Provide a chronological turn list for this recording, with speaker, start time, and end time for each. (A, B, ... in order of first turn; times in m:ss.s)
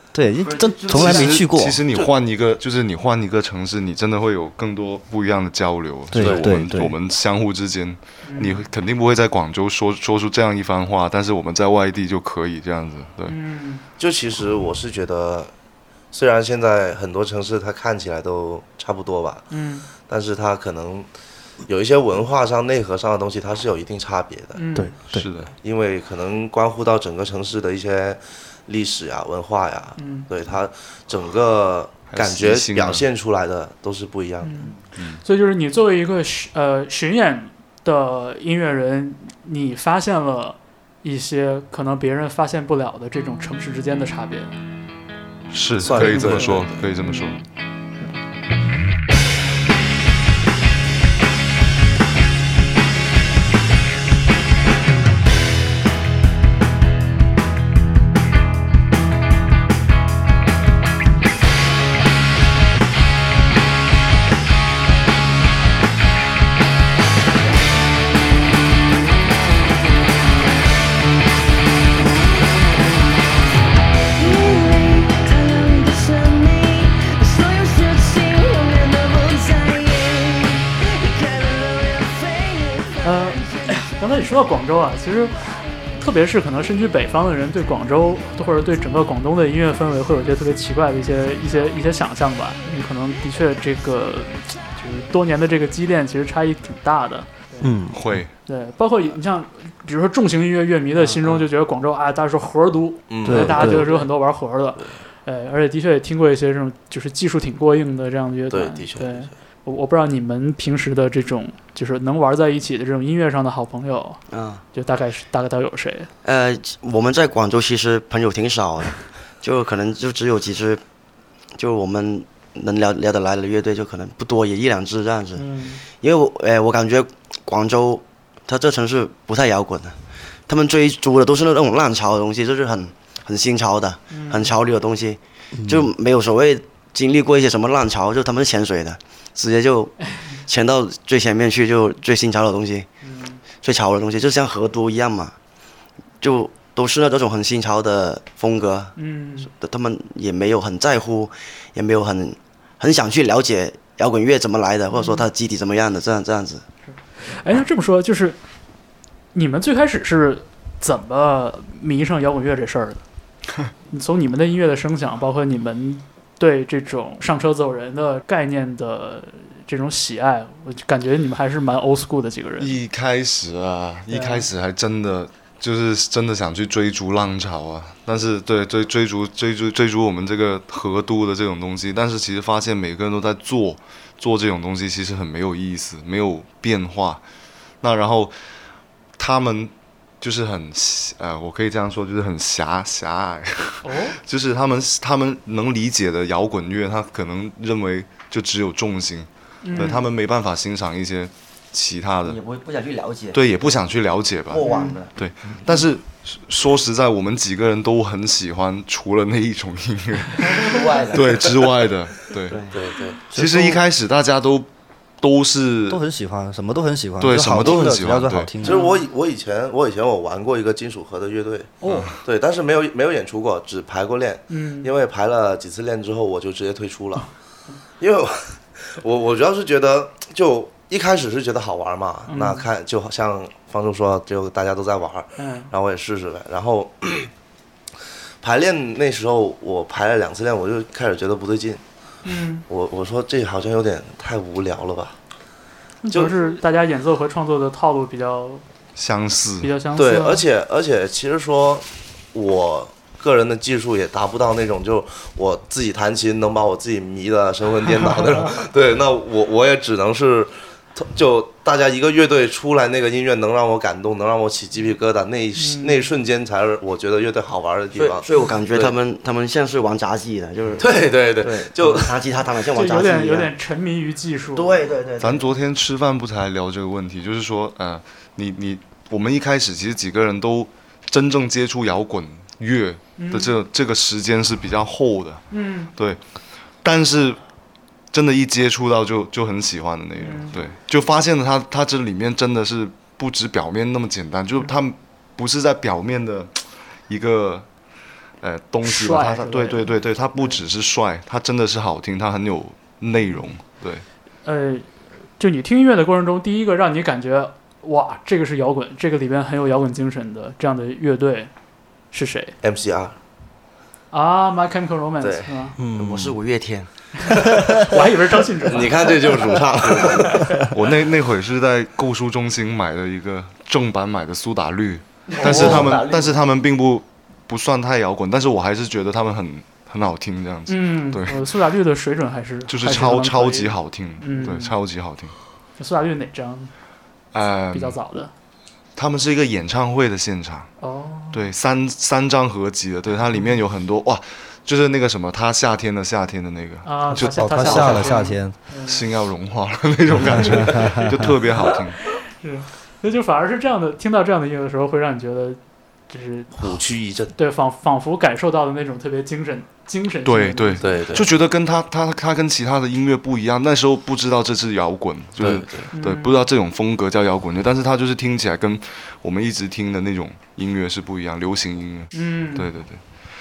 0:00.1-0:01.8 A
0:00.4-0:01.6 B
0:00.9-0:13.4 C
0:06.1-0:06.9 A
0:06.2-0:06.6 D
0:08.2-0:08.6 E
0:13.2-0:13.8 E
0:14.0-0:15.5 D
0:16.1-0:19.4 D
0:19.5-0:19.9 E
0:20.1-0:21.1 D
0:21.6-0:24.6 D
0:24.6-0:24.9 E
0:24.7-0:25.2 A
0:25.0-0:25.5 C
0:25.6-0:34.5 D
0:30.0-0:30.3 E
0:32.1-0:33.0 C
0:34.4-0:44.5 E
0:35.0-0:35.2 C
0:45.5-0:47.4 C
0:45.8-0:46.8 D
0:46.0-0:47.4 E
1:14.2-1:23.8 F
1:23.0-1:25.3 E
1:26.0-1:37.7 E
1:37.6-1:38.2 A
1:37.9-1:38.3 C
1:38.5-1:54.2 E
1:43.1-1:44.0 D
1:43.2-1:43.9 A
1:48.5-1:49.3 D
1:54.3-1:54.6 B
1:54.7-1:56.1 E
1:56.2-2:00.8 B
2:01.5-2:22.9 B
2:05.3-2:05.8 E
2:14.1-2:14.5 E
2:15.6-2:15.9 A
2:23.0-2:23.4 E
2:23.6-2:25.4 B
2:26.2-2:36.6 B
2:29.0-2:29.5 E
2:34.9-2:35.2 E
2:36.9-2:38.4 E
2:39.3-2:43.0 E
2:43.9-2:52.8 E
2:52.6-3:07.2 C
2:54.1-2:54.5 E
3:07.8-3:08.3 C
3:09.2-3:22.4 C
3:13.8-3:14.2 E
3:19.6-3:20.1 E
3:22.2-3:23.8 B
3:23.3-3:32.6 C
3:24.5-3:25.8 B
3:24.6-3:25.0 E
3:30.6-3:31.6 B
3:32.5-3:32.8 B
3:32.7-3:33.2 D
3:33.3-3:33.8 B
3:33.3-3:34.7 C
3:35.2-3:36.0 C
3:35.9-3:38.8 A
3:37.2-3:38.5 C
3:38.6-3:47.3 D
3:38.6-3:39.0 E
3:41.8-3:42.1 E
3:41.8-3:42.2 C
3:44.5-3:44.9 E
3:48.0-3:57.3 D
3:52.3-3:52.7 E
3:55.4-3:55.7 E
3:58.4-4:01.8 D
4:02.2-4:02.6 E
4:02.7-4:05.2 D
4:06.0-4:08.6 E
4:09.0-4:09.7 C
4:09.6-4:10.4 E
4:10.0-4:29.0 D
4:25.6-4:26.0 E
4:27.9-4:33.5 B
4:30.8-4:32.2 D
4:32.7-4:34.9 E
4:34.5-4:35.5 B
4:35.2-4:45.4 C
4:43.2-4:43.6 E
4:45.5-4:45.9 E
4:45.9-4:46.2 C
4:46.8-4:47.4 C
4:48.1-4:57.7 C
4:50.2-4:50.6 E
4:58.4-5:04.0 C
4:58.8-5:00.6 E
5:03.2-5:03.5 E
5:04.4-5:04.8 E
5:05.4-5:11.5 E
5:12.1-5:12.5 E
5:12.6-5:13.2 D
5:14.1-5:15.8 E
5:15.2-5:15.5 D
5:15.8-5:16.9 B
5:17.3-5:19.1 E
5:18.7-5:20.5 D
5:20.2-5:20.5 E
5:20.7-5:31.5 C
5:25.3-5:26.4 B
5:25.4-5:25.9 E
5:30.7-5:34.8 E
5:32.7-5:35.3 C
5:35.8-5:36.7 E
5:37.3-5:38.0 C
5:37.7-5:38.3 E
5:39.0-5:40.7 C
5:40.8-5:41.4 E
5:41.3-5:48.3 C
5:46.8-5:49.0 E
5:47.1-5:48.5 A
5:48.8-5:52.0 C
5:50.3-5:51.5 E
5:52.4-5:55.6 E
5:56.1-5:56.8 E
5:56.6-5:57.3 D
5:57.3-6:01.0 E
6:00.2-6:13.0 C
6:00.8-6:01.3 D
6:05.4-6:05.9 D
6:05.9-6:06.5 E
6:12.1-6:12.7 E